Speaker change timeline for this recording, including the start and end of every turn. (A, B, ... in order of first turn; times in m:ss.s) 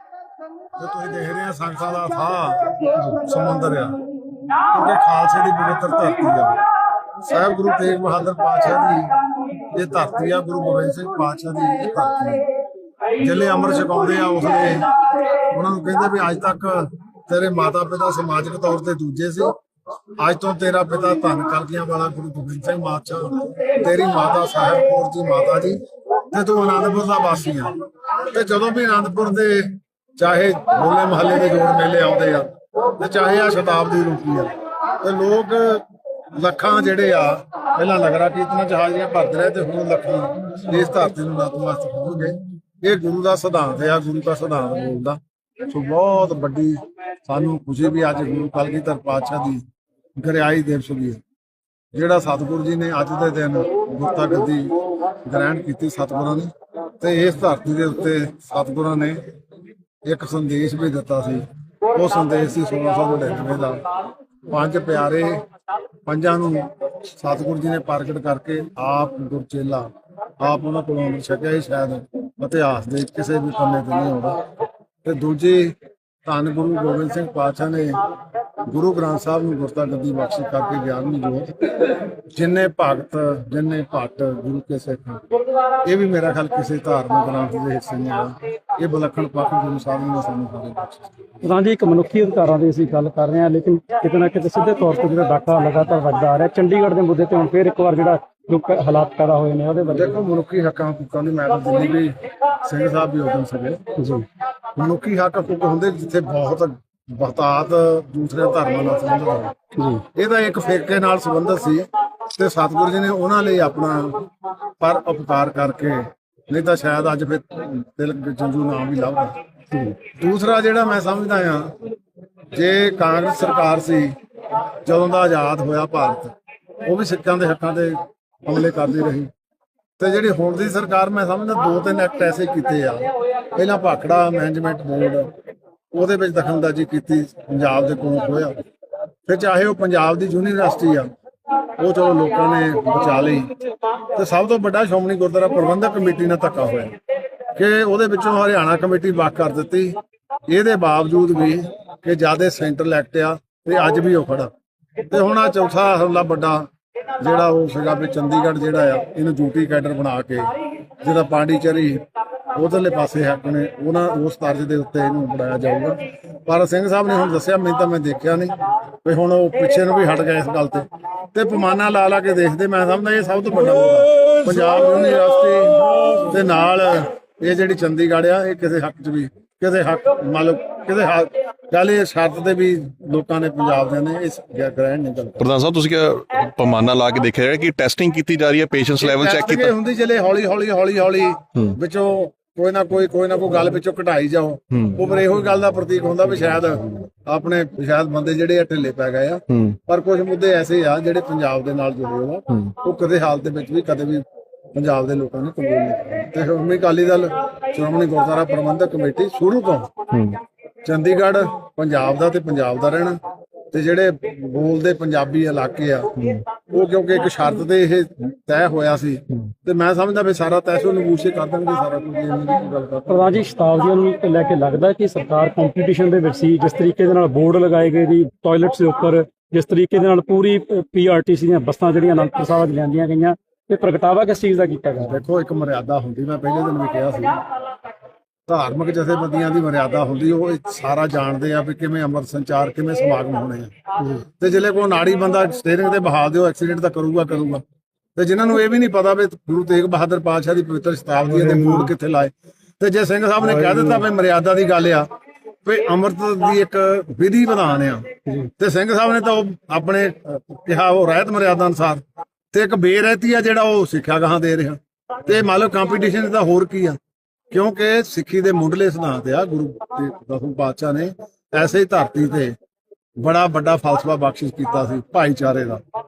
0:00.8-0:04.0 A
0:04.7-0:06.6 A
0:07.2-0:09.2 A
0:09.7-0:12.5 A
0:13.2-0:19.5 A
0:20.2-0:49.6 A
0:50.2-0:51.2 A
0:51.9-0:59.2 A
1:00.1-1:03.9 A
1:04.5-1:05.4 A
1:06.1-1:14.4 A
1:15.0-1:18.1 A
1:18.6-1:25.2 A
1:25.8-1:31.1 A
1:31.4-1:40.2 B
1:39.9-1:43.8 A
1:44.0-1:44.3 B
1:44.8-1:49.6 A
1:49.8-1:50.0 B
1:50.1-1:54.3 A
1:54.8-1:59.4 A
2:00.1-2:01.8 A
2:02.5-2:04.2 A
2:04.8-2:09.3 A
2:10.0-2:15.3 A
2:15.9-2:18.6 A
2:19.3-2:21.1 A
2:21.8-2:23.5 A
2:24.1-2:27.0 A
2:27.5-2:34.5 A
2:35.1-2:36.7 A
2:37.2-3:05.5 A
3:05.4-3:09.7 C
3:09.0-3:24.2 A
3:19.5-3:19.8 C
3:24.7-3:30.1 A
3:30.1-3:30.4 C
3:30.8-3:33.2 A
3:33.7-3:43.4 A
3:36.2-3:36.4 C
3:43.1-3:55.2 B
3:55.0-3:57.4 A
3:58.5-4:03.8 A
4:04.4-4:07.6 A
4:08.2-4:15.1 A
4:11.3-4:11.9 B
4:13.4-4:14.0 B
4:15.6-4:22.0 A
4:22.5-4:27.0 A
4:27.5-4:32.6 A
4:33.2-4:35.8 A